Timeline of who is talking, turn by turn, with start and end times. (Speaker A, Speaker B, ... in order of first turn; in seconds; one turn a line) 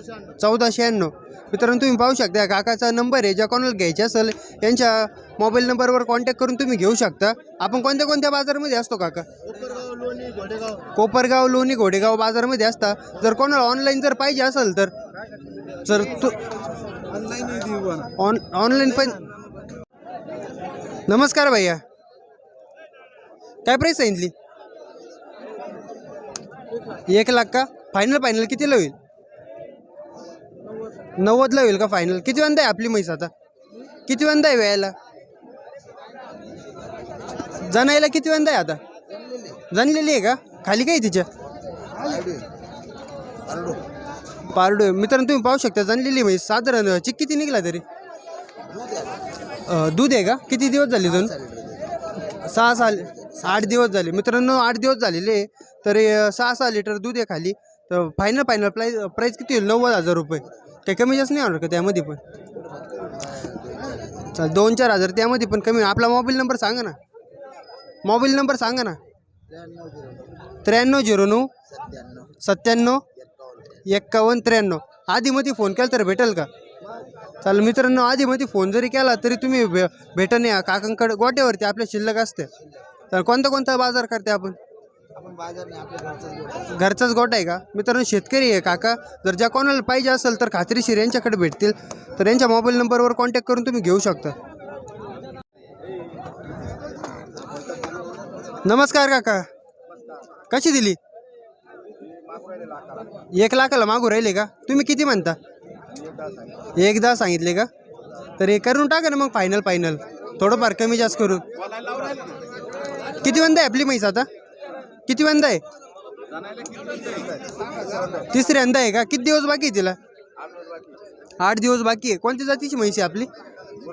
Speaker A: 0.4-9.2
Speaker B: 9.8-10.8
Speaker A: 10.9-14.9
Speaker A: 15.8-16.4
Speaker B: 17.3-17.9
Speaker A: 18.1-19.2
Speaker A: 21.1-21.8
Speaker A: 23.6-24.3
Speaker A: 27.1-28.9
Speaker A: 31.2-33.3
Speaker A: 34.1-34.9
Speaker A: 37.6-38.8
Speaker A: 39.7-41.3
Speaker B: 42.0-42.4
Speaker A: 44.5-47.8
Speaker A: 49.6-51.4
Speaker A: 52.3-62.2
Speaker B: 63.5-64.0
Speaker A: 64.3-67.0
Speaker A: 68.0-69.0
Speaker B: 69.8-70.2
Speaker A: 70.6-71.5
Speaker B: 71.9-72.3
Speaker A: 72.4-73.0
Speaker A: 73.8-76.5
Speaker A: 77.4-82.5
Speaker A: 83.1-84.6
Speaker B: 85.2-86.5
Speaker A: 86.6-94.3
Speaker A: 98.6-99.5
Speaker A: 100.5-101.0
Speaker A: 103.3-105.4
Speaker A: 106.8-107.7
Speaker A: 108.4-111.4
Speaker A: 113.2-114.3
Speaker A: 115.1-115.6
Speaker A: 118.2-120.0
Speaker A: 121.4-123.3